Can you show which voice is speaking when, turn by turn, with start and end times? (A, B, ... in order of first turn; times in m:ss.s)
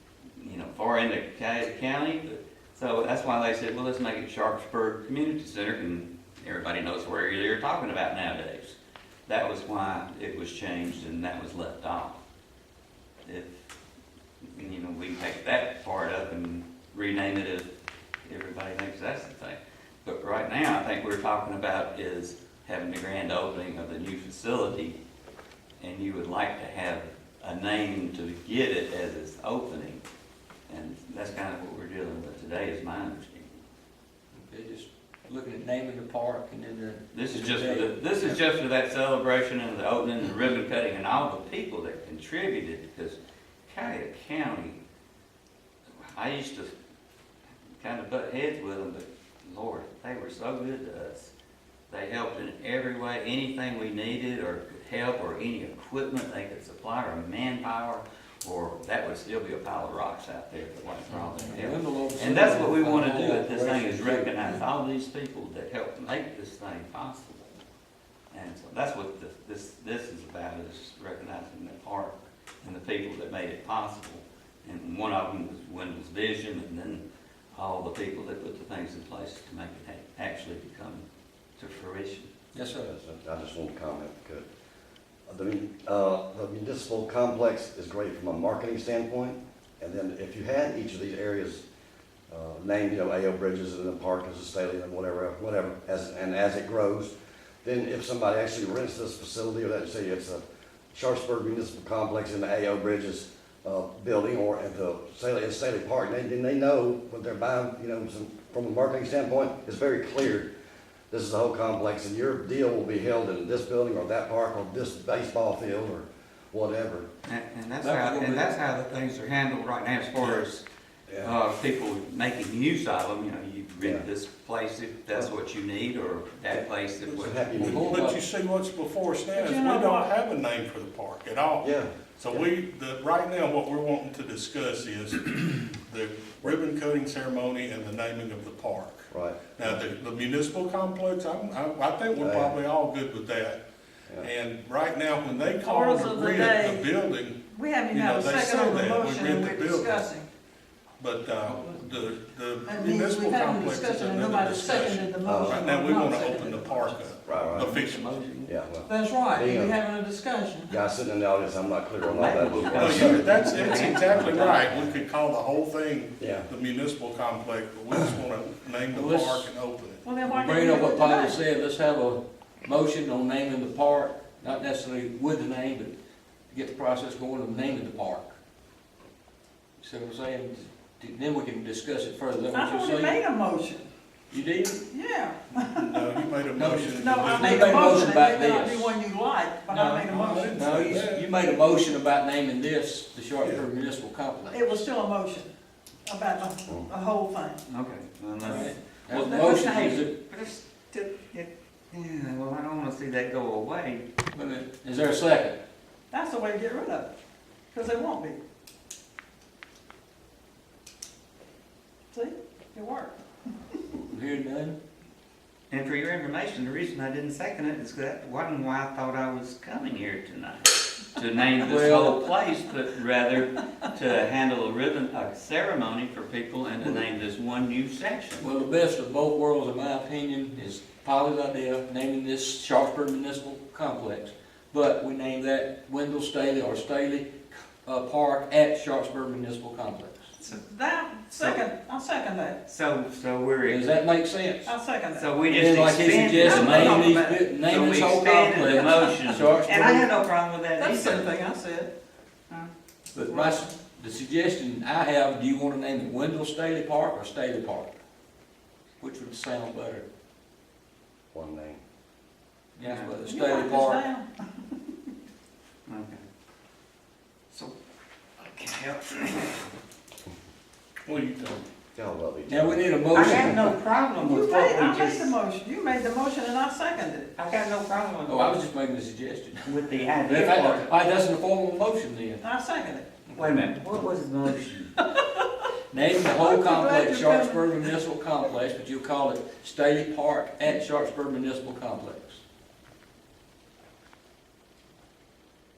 0:00.4-0:12.2 A
0:13.3-0:13.6 A
0:14.4-0:17.7 A
0:18.2-0:25.0 A
0:25.8-0:30.0 A
0:30.7-0:33.6 A
0:34.3-0:38.4 B
0:37.1-0:44.8 A
0:46.0-0:46.7 A
0:47.8-0:51.3 A
0:51.9-1:07.6 A
1:01.1-1:04.6 B
1:08.3-1:21.1 A
1:21.6-1:22.3 A
1:22.5-1:22.9 B
1:22.8-1:24.5 C
1:25.3-1:31.6 C
1:32.3-1:50.5 C
1:51.1-1:57.1 C
1:57.3-2:00.6 A
1:57.8-1:58.5 B
2:01.2-2:07.4 A
2:07.1-2:23.6 D
2:07.1-2:08.0 C
2:07.6-2:08.2 B
2:09.3-2:10.1 E
2:11.6-2:12.4 C
2:19.1-2:19.8 C
2:22.2-2:22.6 C
2:24.2-2:27.4 D
2:25.5-2:26.9 E
2:27.5-2:30.3 E
2:27.9-2:30.0 D
2:31.0-2:38.1 D
2:32.6-2:37.1 E
2:35.2-2:35.6 C
2:37.3-2:37.8 C
2:37.4-2:38.5 A
2:38.4-2:39.8 C
2:38.9-2:40.7 E
2:40.7-2:44.1 C
2:42.0-2:45.0 A
2:42.7-2:50.0 D
2:46.2-2:46.5 C
2:48.9-2:49.5 B
2:50.0-2:51.4 E
2:50.2-2:55.9 B
2:56.5-2:58.4 B
2:59.8-3:03.2 B
3:02.5-3:03.9 E
3:04.3-3:04.8 B
3:04.9-3:06.3 E
3:05.6-3:08.1 D
3:06.5-3:09.0 B
3:06.9-3:10.7 E
3:09.7-3:11.3 D
3:10.5-3:14.8 B
3:14.5-3:15.5 E
3:16.1-3:17.6 E
3:17.7-3:24.0 A
3:18.4-3:20.1 B
3:24.3-3:25.6 B
3:26.1-3:27.1 E
3:27.7-3:28.4 E
3:32.1-3:33.2 E
3:34.1-3:34.8 B
3:35.7-3:48.5 A
3:41.6-3:42.3 B
3:48.4-4:00.3 B
4:00.4-4:02.6 E
4:01.3-4:01.6 A
4:02.7-4:03.8 A
4:03.6-4:04.7 B
4:04.6-4:05.3 E
4:05.1-4:11.3 A
4:05.5-4:10.1 B
4:06.4-4:07.4 E
4:08.6-4:09.4 E
4:10.8-4:11.9 E
4:13.1-4:18.0 B
4:13.3-4:13.7 E
4:19.0-4:20.0 B
4:21.3-4:21.8 C
4:22.8-4:24.0 B
4:22.8-4:23.1 A
4:23.2-4:24.3 E
4:25.9-4:26.2 A
4:28.4-4:29.7 A
4:31.1-4:31.6 D
4:32.0-4:33.5 C
4:32.5-4:33.8 B
4:33.1-4:35.4 A
4:34.2-4:37.3 E
4:37.4-4:38.6 A
4:38.3-4:42.4 B
4:39.7-4:40.9 A
4:42.4-4:43.1 E
4:43.3-4:43.6 B
4:43.4-4:44.9 A
4:45.0-4:45.5 E
4:45.9-4:52.4 B
4:46.4-4:47.9 E